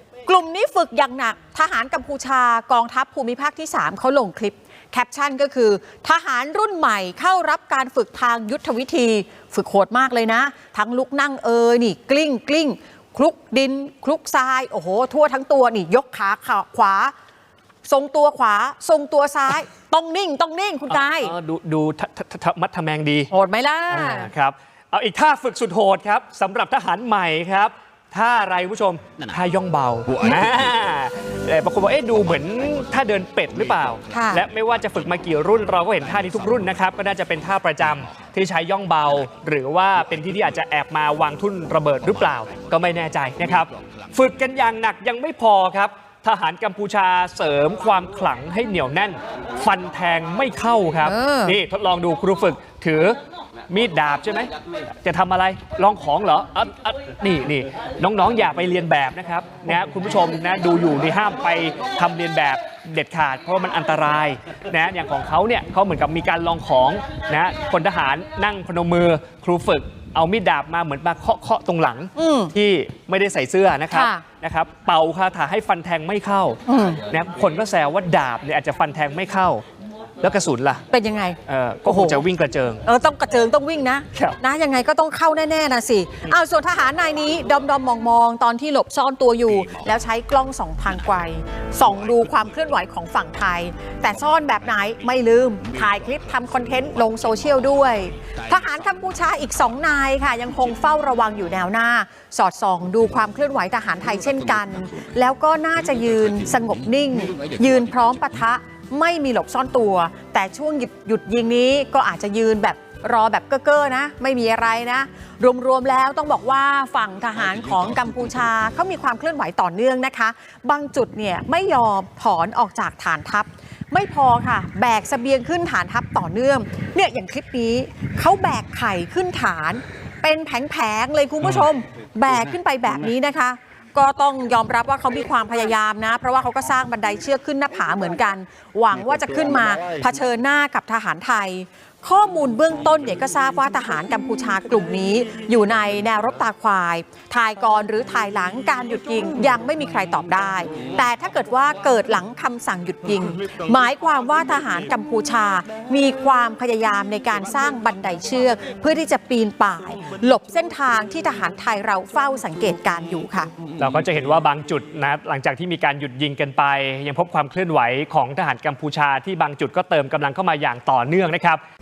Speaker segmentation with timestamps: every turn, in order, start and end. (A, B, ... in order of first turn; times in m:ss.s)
0:00.2-0:17.1 A
0:17.8-0:21.3 A
0:20.9-0:23.3 B
0:23.3-0:24.3 A
0:23.9-0:53.2 B
0:34.1-0:34.4 A
0:51.0-0:51.6 A
0:53.7-0:54.5 B
0:55.0-1:19.6 B
1:12.2-1:12.5 A
1:13.9-1:14.2 A
1:16.7-1:17.0 A
1:20.2-1:20.8 B
1:20.9-1:22.2 A
1:21.4-1:22.8 B
1:22.8-2:43.5 A
2:43.8-2:51.6 B